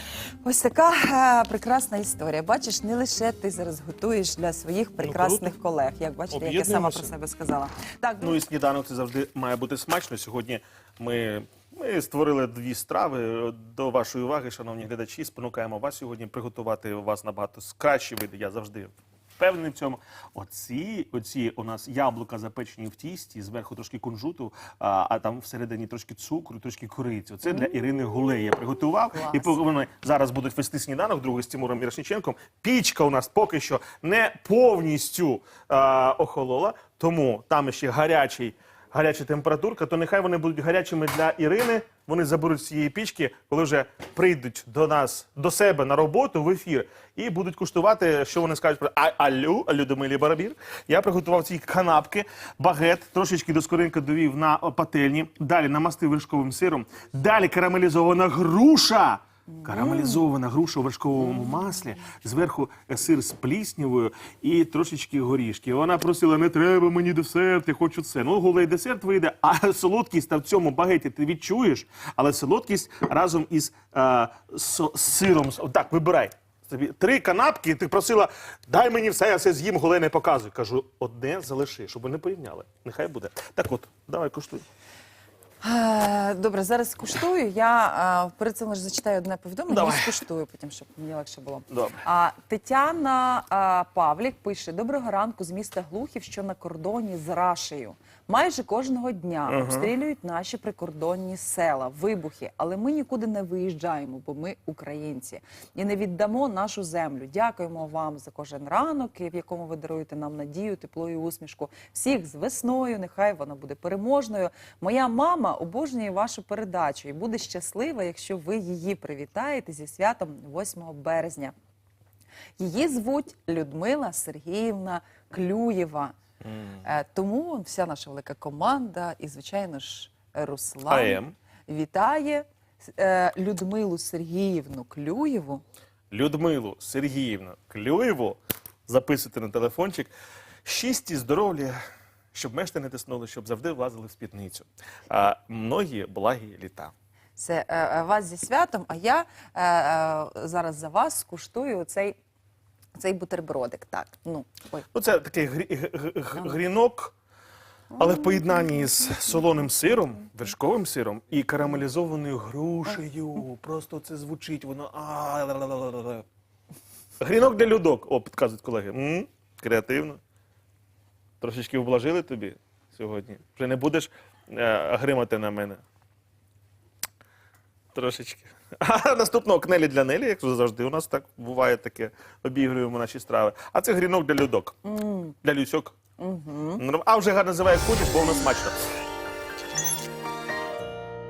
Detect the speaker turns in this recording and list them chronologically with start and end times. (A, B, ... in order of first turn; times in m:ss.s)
0:00.4-0:08.4 A
0:05.0-0:05.5 B
0:06.3-0:07.1 B
0:08.2-1:24.6 B
0:27.4-0:29.6 A
0:59.6-1:00.2 A
1:25.6-2:01.5 A
1:29.7-1:30.2 B
1:31.7-1:32.0 B
1:39.5-1:39.9 B
2:02.6-2:06.1 A
2:06.4-2:06.8 B
2:06.8-2:15.6 A
2:10.9-2:11.3 B
2:16.1-2:20.1 B
2:20.6-2:21.8 B
2:22.3-2:26.9 B
2:27.4-2:32.2 A
2:32.9-2:34.8 A
2:34.9-2:37.1 B
2:37.9-2:38.6 A
2:38.0-2:46.2 B
2:47.2-2:50.2 B
2:51.4-2:55.8 B
2:57.9-3:04.8 B
3:04.8-3:05.3 A
3:05.4-3:06.0 B
3:06.2-3:06.8 A
3:06.8-3:08.8 B